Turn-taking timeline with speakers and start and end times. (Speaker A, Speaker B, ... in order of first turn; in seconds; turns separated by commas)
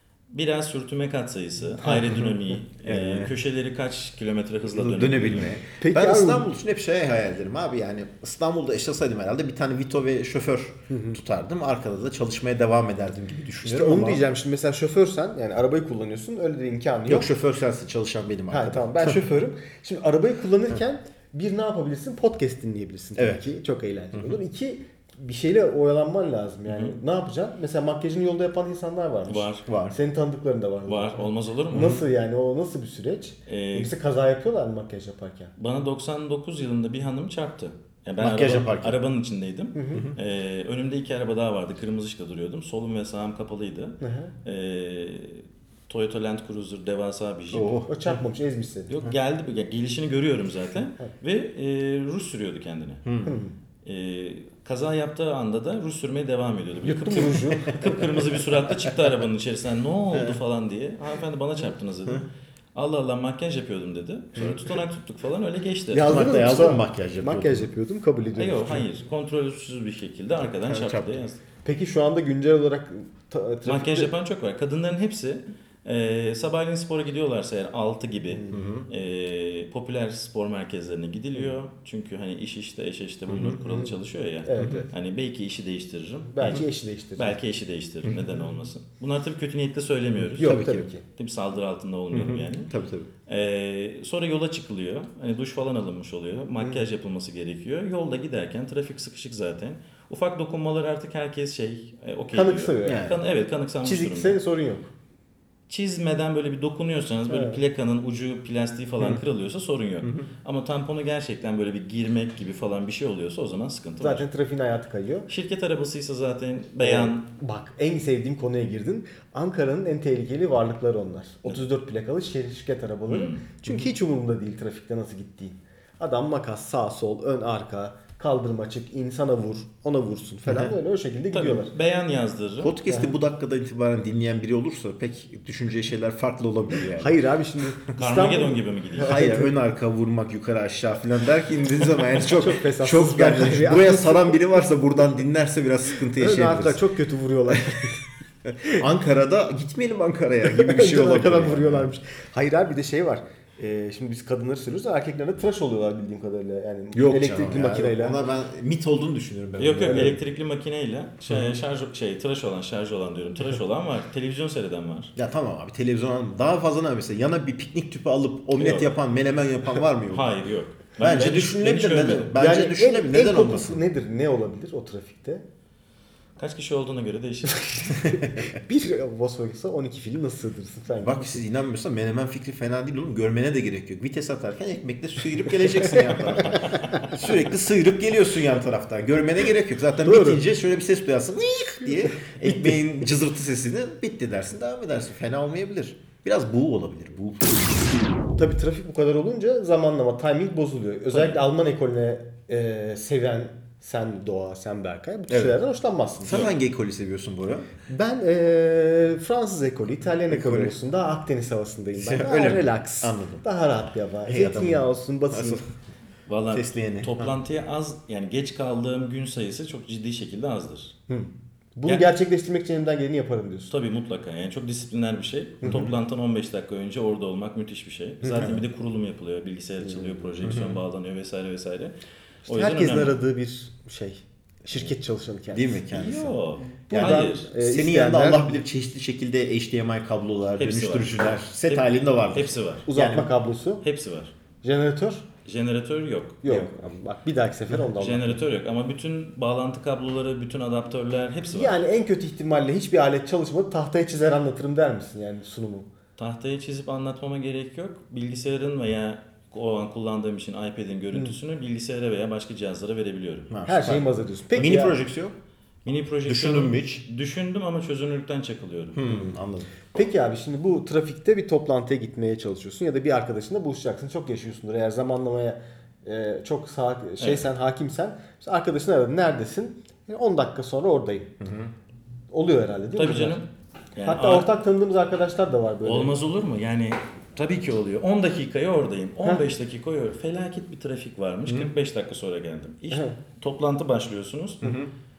Speaker A: 0.3-5.6, Speaker B: 1.8-2.3, Speaker C: 2.8-3.3, Speaker C: 4.7-14.2, Speaker B: 5.8-6.5, Speaker B: 10.9-11.2, Speaker B: 13.6-17.3, Speaker C: 17.1-19.2, Speaker B: 18.5-35.5, Speaker C: 23.1-23.4, Speaker A: 26.7-27.0, Speaker A: 29.2-29.6, Speaker C: 29.7-30.0, Speaker A: 30.8-32.0, Speaker A: 33.5-33.9, Speaker A: 35.6-48.1, Speaker C: 38.2-39.0, Speaker B: 39.7-40.1, Speaker B: 44.0-44.3, Speaker C: 47.5-47.9, Speaker B: 47.9-48.9, Speaker A: 48.9-53.0, Speaker C: 53.0-53.4, Speaker B: 53.2-53.5, Speaker A: 53.8-66.2, Speaker B: 56.8-58.0, Speaker C: 60.1-60.4, Speaker B: 65.9-68.9, Speaker C: 66.0-67.7, Speaker A: 68.4-71.4, Speaker C: 70.4-71.2, Speaker B: 71.6-74.1, Speaker A: 73.6-90.6, Speaker C: 78.5-78.9, Speaker B: 83.4-84.9, Speaker C: 84.6-84.9, Speaker B: 86.3-87.4, Speaker C: 88.0-88.3, Speaker C: 90.3-90.9, Speaker B: 90.3-91.0, Speaker A: 91.1-92.7, Speaker C: 92.1-93.1, Speaker A: 93.3-104.4, Speaker B: 102.3-103.0, Speaker C: 102.8-103.2, Speaker B: 103.8-104.9, Speaker A: 105.7-114.2, Speaker B: 107.3-107.6, Speaker C: 110.0-110.3, Speaker B: 114.0-115.3, Speaker A: 115.3-117.2, Speaker B: 116.8-131.7, Speaker A: 123.1-123.4, Speaker C: 130.5-130.7, Speaker A: 131.3-132.8, Speaker C: 132.6-137.1, Speaker B: 137.0-139.5, Speaker A: 138.0-139.3, Speaker C: 139.0-146.8, Speaker B: 142.2-144.5, Speaker B: 146.2-148.0, Speaker C: 148.6-151.9, Speaker B: 150.4-158.2, Speaker C: 156.9-160.2, Speaker A: 159.6-165.1, Speaker B: 159.8-160.2, Speaker C: 165.1-170.4, Speaker A: 168.6-168.9, Speaker A: 170.1-172.3, Speaker C: 171.0-173.8, Speaker B: 172.3-175.4, Speaker A: 176.4-177.9, Speaker B: 177.7-181.4, Speaker C: 181.0-197.7, Speaker B: 185.9-186.5, Speaker A: 186.7-187.1, Speaker B: 190.0-190.4, Speaker B: 198.4-206.4, Speaker A: 201.1-201.4, Speaker C: 205.3-205.5, Speaker C: 206.2-207.7, Speaker B: 207.9-215.6, Speaker C: 210.3-210.8, Speaker C: 211.9-213.4, Speaker C: 214.2-215.6, Speaker A: 216.3-220.9, Speaker C: 216.5-217.3, Speaker B: 221.1-223.7, Speaker A: 223.7-231.9, Speaker B: 225.6-225.9, Speaker C: 225.7-225.9, Speaker C: 228.2-228.6, Speaker B: 229.9-230.2, Speaker C: 230.4-230.8, Speaker A: 232.5-233.2, Speaker B: 232.5-235.8, Speaker C: 235.5-236.4, Speaker A: 235.9-237.5, Speaker B: 236.9-238.6, Speaker C: 236.9-243.3, Speaker A: 240.6-242.9, Speaker B: 242.9-243.8, Speaker A: 243.8-244.3, Speaker B: 244.6-245.2, Speaker A: 245.4-246.7, Speaker B: 246.4-248.4, Speaker A: 247.9-251.7, Speaker B: 251.5-255.9, Speaker A: 256.2-263.5, Speaker C: 263.5-265.3, Speaker B: 263.7-265.0, Speaker A: 265.8-269.0, Speaker C: 266.3-267.0, Speaker C: 268.9-269.7, Speaker B: 269.1-269.3, Speaker B: 269.9-281.3, Speaker A: 277.2-277.4, Speaker C: 281.4-281.7, Speaker B: 282.3-283.4, Speaker A: 282.9-284.5, Speaker B: 284.0-286.1, Speaker A: 285.8-294.8, Speaker C: 294.6-294.9